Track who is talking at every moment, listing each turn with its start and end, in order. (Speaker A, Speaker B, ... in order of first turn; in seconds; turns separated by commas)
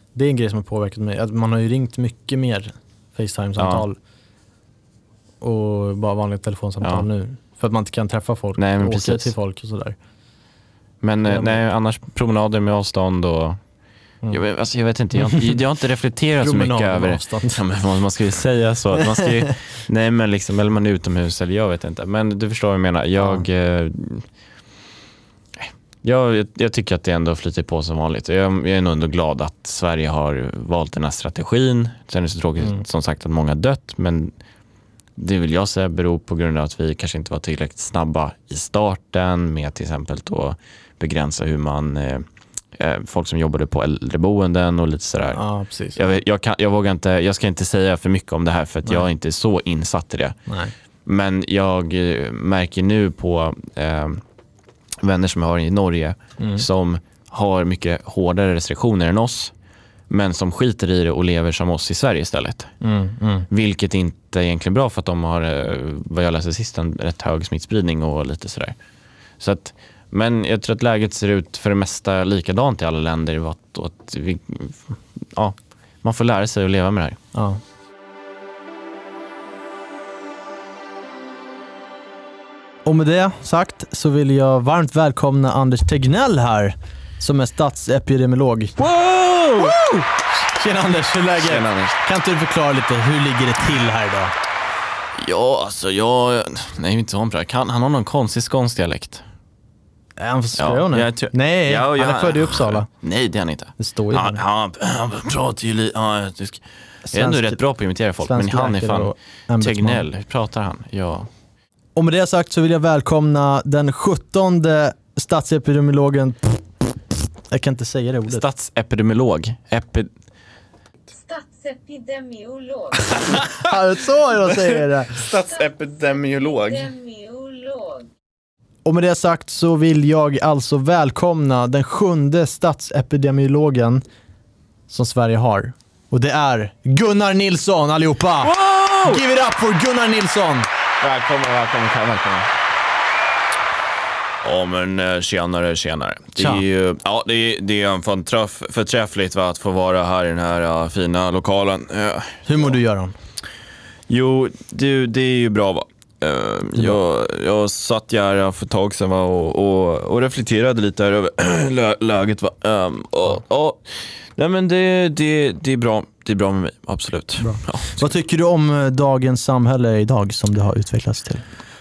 Speaker A: 0.1-4.0, Speaker B: 3.6-3.9, Speaker A: 5.4-10.0, Speaker B: 6.8-7.1, Speaker B: 8.6-9.3, Speaker B: 11.0-13.6, Speaker A: 11.3-11.6, Speaker B: 14.3-24.3, Speaker A: 15.2-15.6, Speaker A: 16.4-17.6, Speaker A: 19.0-19.3, Speaker A: 23.2-23.4, Speaker B: 25.6-34.3, Speaker B: 35.2-45.4, Speaker A: 45.3-46.0, Speaker B: 46.0-50.4, Speaker A: 50.5-50.7, Speaker B: 51.1-54.2, Speaker B: 55.0-59.5, Speaker A: 56.4-56.6, Speaker B: 60.1-62.7, Speaker A: 62.8-63.5, Speaker B: 63.5-68.8, Speaker B: 69.4-77.2, Speaker A: 77.3-77.6, Speaker A: 82.8-88.8, Speaker B: 88.8-90.0, Speaker A: 89.6-94.3, Speaker B: 91.4-92.0, Speaker B: 95.2-99.2, Speaker A: 100.2-102.9, Speaker B: 100.6-111.3, Speaker A: 103.8-104.4, Speaker A: 107.1-107.6, Speaker A: 108.2-110.0, Speaker A: 112.0-116.8, Speaker A: 117.5-118.4, Speaker B: 118.3-120.1, Speaker C: 121.2-123.3, Speaker B: 123.1-123.7, Speaker A: 123.3-125.2, Speaker B: 124.5-126.9, Speaker C: 126.4-128.1, Speaker A: 128.8-134.0, Speaker A: 134.9-140.7, Speaker B: 138.4-139.2, Speaker B: 141.0-142.5, Speaker B: 144.4-152.7, Speaker A: 146.4-146.6, Speaker A: 152.5-153.1, Speaker B: 154.1-168.1, Speaker A: 167.4-171.4